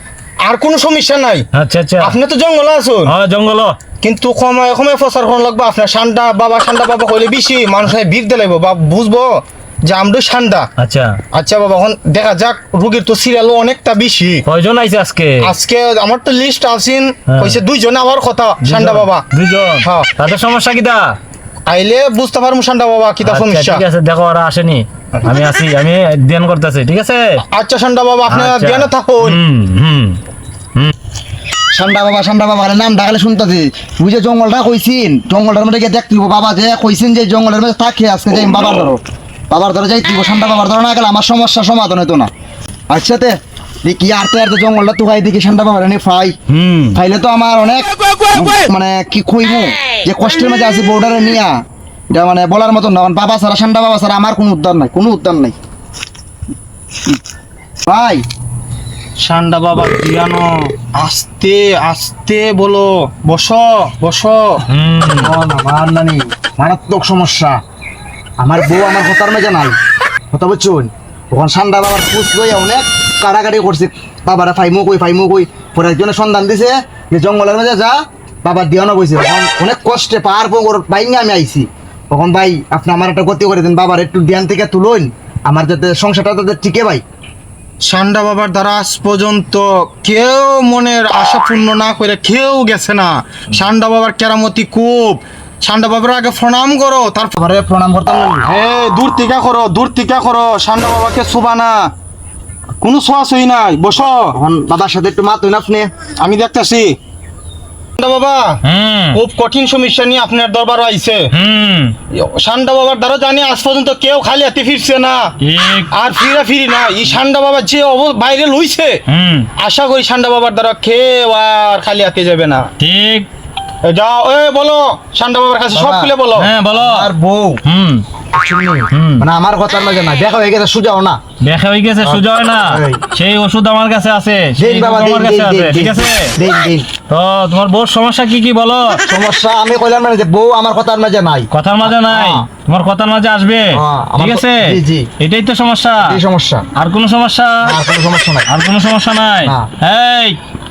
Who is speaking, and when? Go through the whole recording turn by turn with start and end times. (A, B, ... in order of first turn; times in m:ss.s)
0:00.4-0:01.4 A
0:01.5-0:02.2 B
0:02.0-0:03.1 A
0:03.1-0:03.8 B
0:04.0-0:10.7 A
0:10.8-0:11.2 B
0:11.3-0:14.4 A
0:14.5-0:15.4 B
0:15.4-0:19.2 A
0:17.3-0:17.6 B
0:18.6-0:21.1 B
0:19.8-0:20.1 A
0:21.7-0:23.8 A
0:23.2-0:27.2 B
0:27.5-0:29.4 A
0:28.3-0:30.2 B
0:31.7-0:42.3 C
0:42.9-0:46.4 C
0:46.5-0:47.0 B
0:46.9-0:51.6 C
0:52.1-0:55.6 C
0:57.9-0:58.2 C
0:59.2-1:04.6 A
1:04.7-1:05.4 B
1:05.1-1:07.6 C
1:08.4-1:09.8 C
1:10.3-1:27.0 C
1:27.9-1:37.4 A
1:37.4-1:38.5 C
1:38.5-1:41.9 A
1:42.8-1:44.3 A
1:44.3-1:45.9 C
1:46.2-1:47.0 A
1:48.0-1:48.5 A
1:48.6-1:49.2 B
1:49.1-1:51.3 A
1:51.3-1:51.9 B
1:52.1-1:55.3 A
1:55.4-1:55.9 B
1:55.9-1:59.0 A
1:59.1-1:59.5 B
1:59.6-2:02.7 A
2:02.8-2:03.3 B
2:03.9-2:06.5 A
2:05.7-2:06.1 C
2:06.4-2:07.1 B
2:06.7-2:07.6 C
2:07.6-2:08.0 B
2:08.3-2:11.2 C
2:08.9-2:09.3 B
2:11.4-2:16.3 B
2:12.0-2:13.0 C
2:14.6-2:16.9 C
2:17.1-2:19.0 B
2:19.0-2:22.5 C
2:21.5-2:26.2 B
2:23.7-2:25.1 C
2:26.0-2:26.7 C
2:26.8-2:27.7 B
2:27.6-2:28.5 C
2:28.5-2:30.4 B